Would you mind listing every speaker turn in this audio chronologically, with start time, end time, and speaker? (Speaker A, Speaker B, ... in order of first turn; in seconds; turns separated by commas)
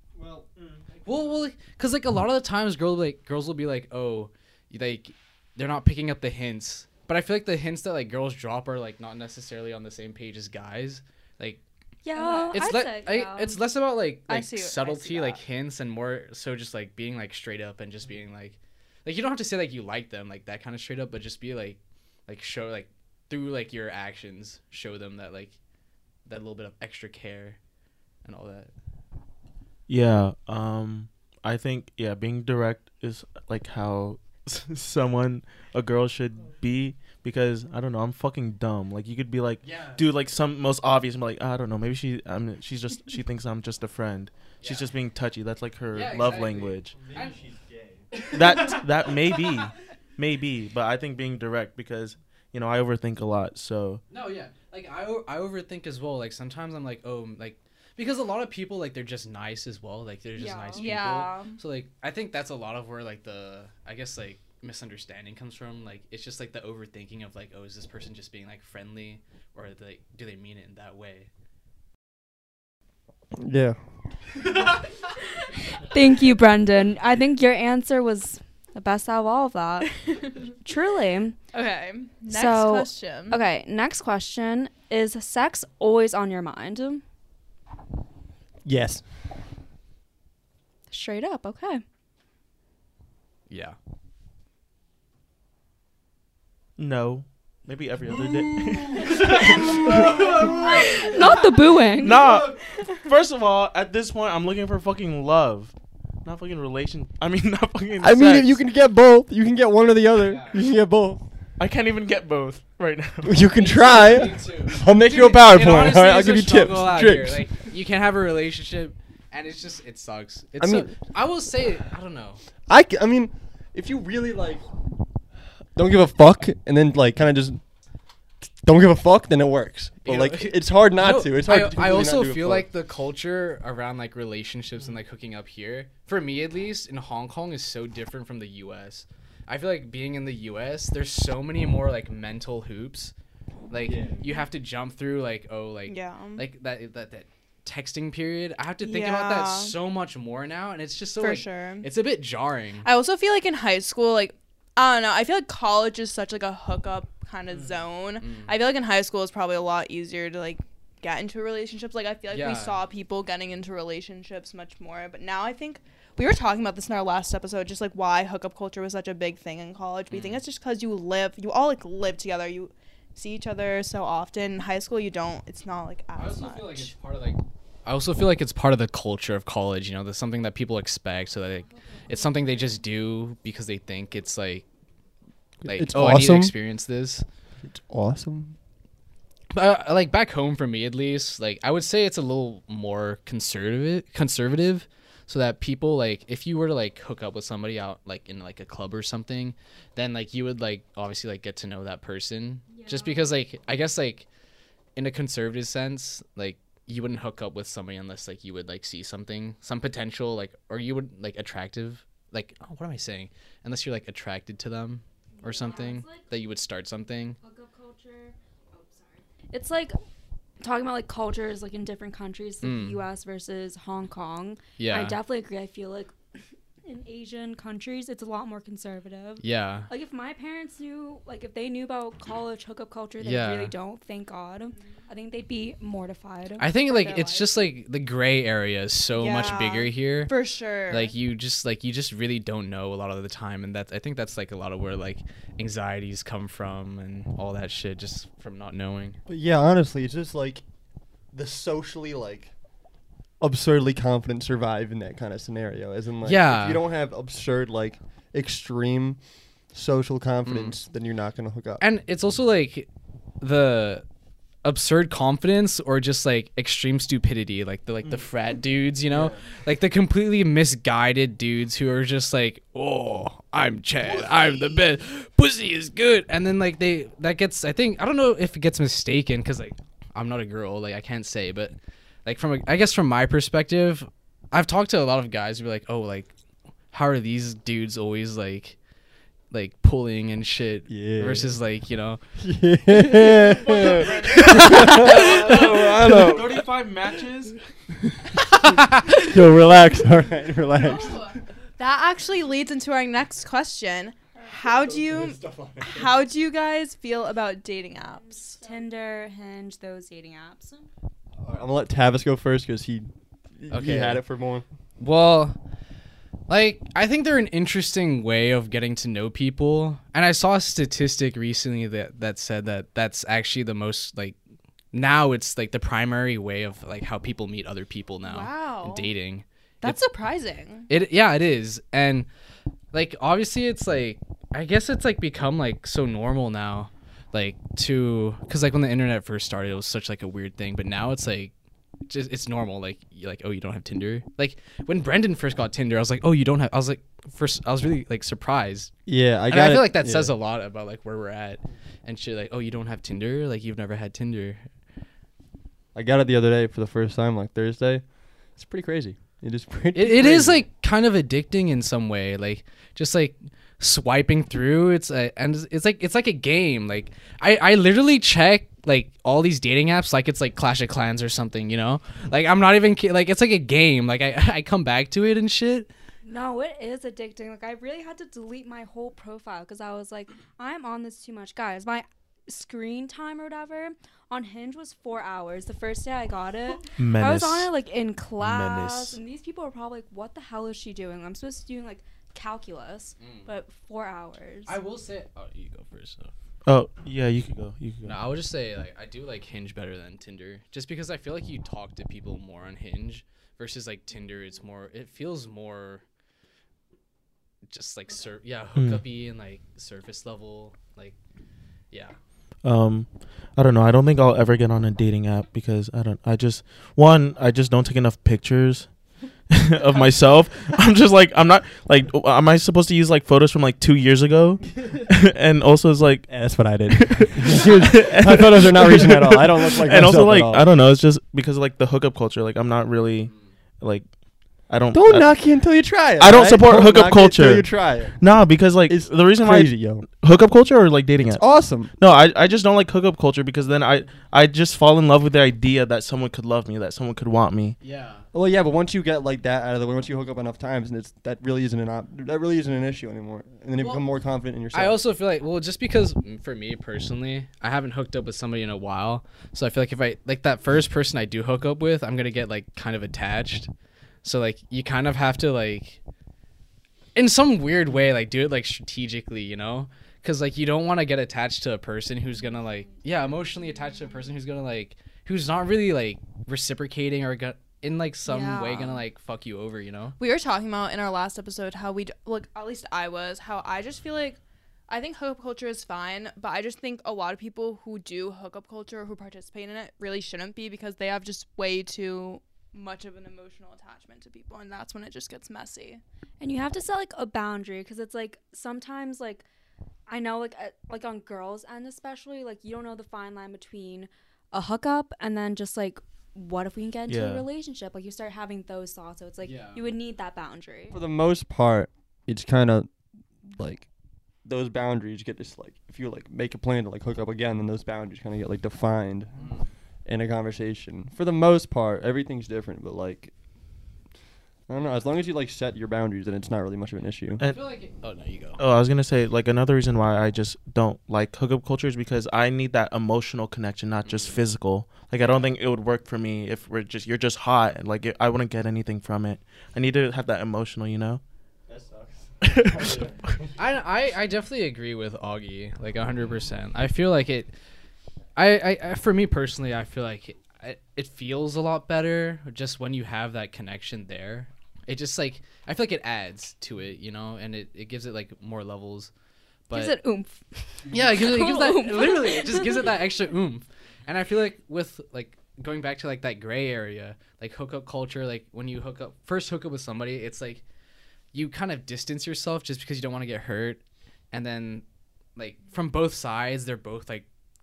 Speaker A: 0.1-0.5, Speaker B: 0.6-0.8, Speaker C: 1.0-11.6, Speaker D: 12.0-13.6, Speaker E: 12.2-12.5, Speaker C: 12.5-25.6, Speaker E: 14.3-15.4, Speaker C: 26.2-27.6, Speaker C: 28.2-28.7, Speaker B: 29.9-47.0, Speaker C: 39.6-40.0, Speaker C: 44.6-44.9, Speaker C: 45.9-47.4, Speaker A: 46.9-48.1, Speaker C: 48.1-49.6, Speaker B: 48.3-54.0, Speaker C: 54.1-71.3, Speaker D: 60.4-60.9, Speaker E: 60.7-61.5, Speaker A: 73.3-73.8, Speaker D: 75.7-81.4, Speaker E: 80.0-80.4, Speaker E: 81.5-83.4, Speaker D: 82.3-87.0, Speaker A: 88.6-89.1, Speaker D: 90.9-91.8, Speaker C: 93.5-93.8, Speaker B: 96.8-101.1, Speaker A: 99.0-101.0, Speaker D: 100.4-102.2, Speaker B: 101.9-108.6, Speaker A: 108.0-111.2, Speaker C: 110.2-110.6, Speaker B: 111.6-113.5, Speaker A: 113.2-117.5, Speaker C: 113.5-122.4, Speaker A: 120.6-120.9, Speaker A: 122.7-124.6, Speaker A: 125.7-127.6, Speaker A: 128.6-132.7, Speaker C: 130.0-143.1, Speaker C: 143.7-152.9, Speaker A: 143.8-144.1, Speaker E: 145.9-146.4, Speaker E: 148.8-149.7, Speaker E: 151.2-151.9, Speaker E: 152.8-176.9, Speaker C: 158.2-158.6, Speaker C: 162.3-162.8, Speaker C: 170.1-170.4, Speaker C: 176.1-184.7, Speaker D: 181.8-182.4, Speaker C: 185.6-187.2, Speaker A: 185.6-186.5, Speaker A: 187.6-188.6, Speaker C: 189.5-204.3, Speaker D: 202.7-203.4, Speaker C: 204.9-217.4, Speaker D: 215.3-216.2, Speaker D: 217.4-220.0, Speaker D: 220.6-236.7, Speaker C: 222.6-223.0, Speaker C: 224.8-225.2, Speaker C: 229.4-229.9, Speaker C: 233.2-233.7, Speaker C: 236.6-240.3, Speaker E: 236.9-237.5, Speaker E: 239.2-241.1, Speaker C: 240.9-249.2, Speaker A: 249.3-250.6, Speaker A: 251.3-252.5, Speaker A: 253.4-261.8, Speaker C: 256.2-256.8, Speaker C: 260.4-260.8, Speaker C: 261.8-264.0, Speaker C: 264.6-286.3, Speaker A: 269.1-269.4, Speaker C: 286.9-288.8, Speaker C: 289.5-292.2, Speaker A: 290.9-291.5, Speaker A: 292.4-296.6, Speaker B: 293.6-297.6, Speaker C: 294.3-295.2, Speaker C: 298.5-299.3, Speaker A: 299.2-301.4, Speaker E: 300.8-308.6, Speaker A: 304.5-306.2, Speaker D: 308.2-310.9, Speaker A: 311.4-314.6, Speaker C: 313.7-314.2, Speaker C: 315.0-315.6, Speaker C: 316.5-324.4, Speaker C: 324.9-330.0, Speaker E: 328.2-329.1, Speaker E: 329.8-330.9, Speaker C: 330.9-332.3, Speaker C: 332.9-341.5, Speaker C: 342.1-348.9, Speaker A: 349.1-350.3, Speaker C: 349.5-354.7, Speaker A: 355.9-360.6, Speaker C: 359.9-375.9, Speaker D: 376.2-394.8, Speaker B: 386.9-387.7, Speaker B: 388.4-389.2, Speaker C: 393.2-393.5, Speaker C: 394.7-396.3, Speaker B: 396.6-398.2, Speaker C: 398.0-406.0, Speaker C: 407.7-411.2, Speaker B: 408.8-409.0, Speaker C: 411.9-412.2, Speaker B: 412.6-435.5, Speaker A: 426.3-430.6, Speaker C: 433.3-433.6, Speaker A: 434.9-440.1, Speaker B: 436.1-447.8, Speaker A: 441.3-441.9, Speaker C: 447.8-448.2, Speaker A: 448.3-455.0, Speaker C: 453.8-454.0, Speaker C: 454.7-463.7, Speaker C: 464.2-466.0, Speaker C: 467.1-480.1, Speaker D: 478.2-479.0, Speaker E: 480.2-496.0, Speaker D: 496.4-499.4, Speaker D: 500.1-511.0, Speaker B: 507.1-507.4, Speaker C: 509.4-509.8, Speaker A: 510.9-512.9, Speaker A: 513.5-513.9, Speaker A: 514.4-519.3, Speaker C: 519.4-519.7, Speaker A: 520.0-523.4, Speaker A: 524.7-527.4, Speaker B: 527.4-527.8, Speaker C: 527.4-528.6, Speaker B: 528.6-541.2, Speaker C: 534.0-534.4, Speaker C: 535.2-535.5, Speaker A: 541.7-543.4, Speaker B: 542.4-543.0, Speaker C: 543.6-547.5, Speaker C: 548.4-559.1, Speaker C: 559.7-560.0, Speaker D: 559.7-562.8, Speaker C: 560.9-570.6, Speaker C: 571.3-574.8, Speaker C: 575.4-577.2